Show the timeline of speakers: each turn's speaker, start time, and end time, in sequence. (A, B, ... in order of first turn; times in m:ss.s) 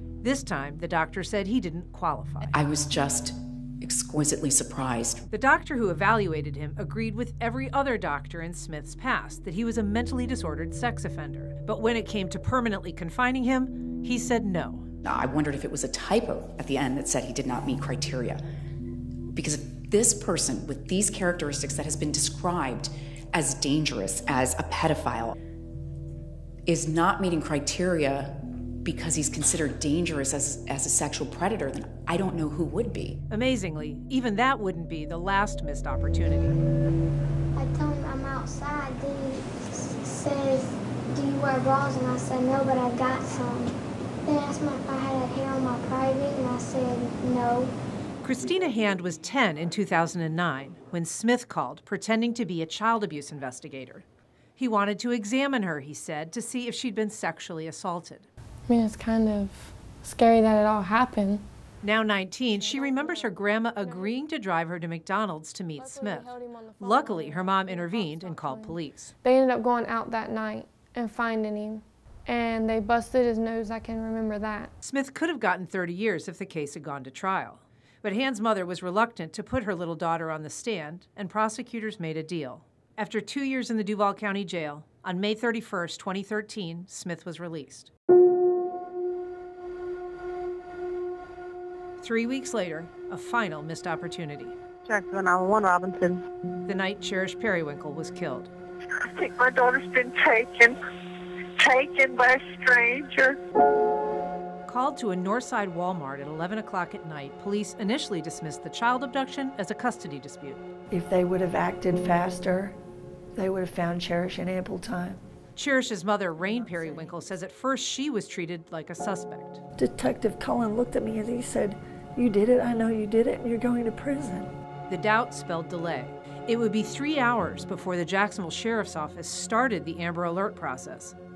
0:00.2-0:02.5 A
0:02.5-0:05.2 B
0:05.3-0:14.9 A
0:15.0-0:18.4 B
0:19.3-0:25.4 B
0:26.6-0:33.2 B
0:33.3-0:36.6 A
0:37.5-0:47.7 C
0:48.2-0:54.0 A
0:54.6-0:58.3 A
0:58.7-1:01.4 D
1:01.8-1:09.1 A
1:02.5-1:04.2 D
1:05.8-1:14.7 D
1:14.8-1:27.9 A
1:32.0-1:34.5 A
1:34.8-1:36.2 E
1:36.6-1:38.5 A
1:39.0-1:40.8 E
1:41.6-1:43.4 E
1:44.7-1:50.6 A
1:50.9-1:52.7 F
1:53.4-1:55.2 F
1:55.6-1:59.6 A
1:59.8-2:04.5 F
2:04.9-2:11.2 A